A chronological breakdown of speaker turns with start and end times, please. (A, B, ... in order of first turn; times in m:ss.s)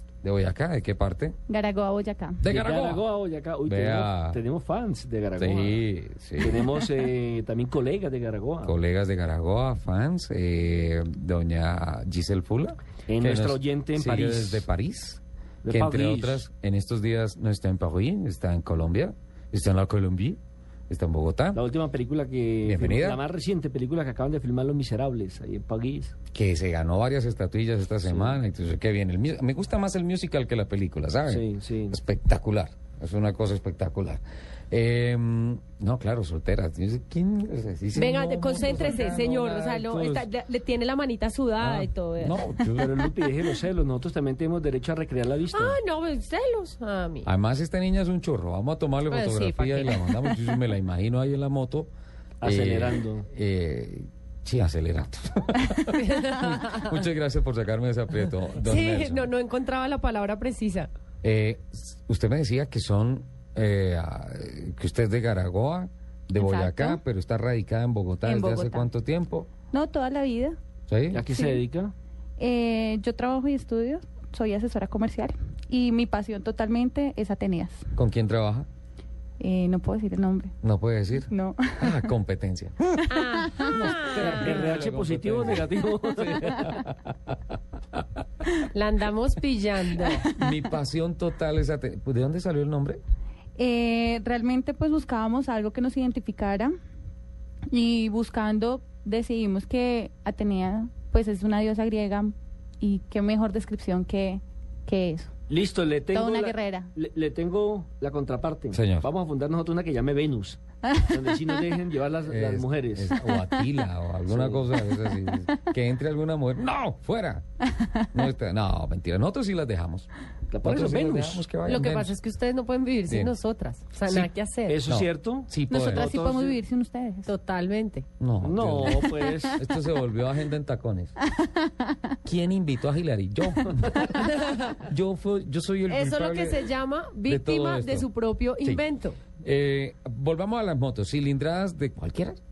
0:00.2-0:01.4 A
0:01.5-0:02.4 B
0:02.4-0:03.0 A
0:02.4-0:05.8 C
0:03.6-0:04.4 A
0:05.4-0:06.8 A
0:06.4-0:08.8 C
0:08.6-0:20.4 A
0:13.1-0:14.6 C
0:15.6-0:16.4 C
0:20.9-0:21.6 A
0:21.5-0:26.2 C
0:22.6-0:23.2 A
0:26.3-0:40.3 A
0:28.0-0:28.4 C
0:31.3-0:32.0 C
0:37.9-0:42.5 D
0:41.6-0:43.0 A
0:42.7-0:45.8 C
0:45.5-0:47.3 D
0:47.2-0:51.9 A
0:49.1-0:50.5 D
0:52.4-0:53.3 C
0:52.4-0:59.3 A
0:55.9-0:57.0 D
0:58.6-1:00.9 D
1:01.2-1:09.5 A
1:06.3-1:07.0 B
1:08.2-1:08.9 B
1:09.7-1:10.6 B
1:10.9-1:11.2 A
1:11.1-1:11.9 C
1:11.3-1:11.6 B
1:12.4-1:17.8 B
1:18.0-1:18.7 A
1:19.4-1:20.5 B
1:20.6-1:23.1 A
1:21.3-1:22.0 B
1:23.1-1:24.7 D
1:23.7-1:26.9 A
1:24.1-1:26.8 C
1:28.7-1:30.2 D
1:30.2-1:33.0 A
1:33.6-1:36.7 B
1:37.7-1:45.3 B
1:45.5-1:53.1 C
1:46.1-1:46.9 B
1:48.7-1:49.1 A
1:52.3-1:57.4 A
1:54.3-1:54.7 C
1:58.1-2:00.1 A
2:00.5-2:01.4 C
2:00.6-2:02.1 A
2:01.6-2:04.8 D
2:03.1-2:03.3 A
2:04.1-2:06.6 C
2:04.9-2:06.2 A
2:05.7-2:07.3 B
2:07.2-2:08.0 D
2:08.2-2:11.1 A
2:08.4-2:09.6 C
2:11.4-2:11.7 B
2:12.2-2:14.2 A
2:14.1-2:14.8 D
2:14.8-2:16.7 A
2:15.9-2:19.2 D
2:17.2-2:18.1 A
2:19.4-2:22.4 A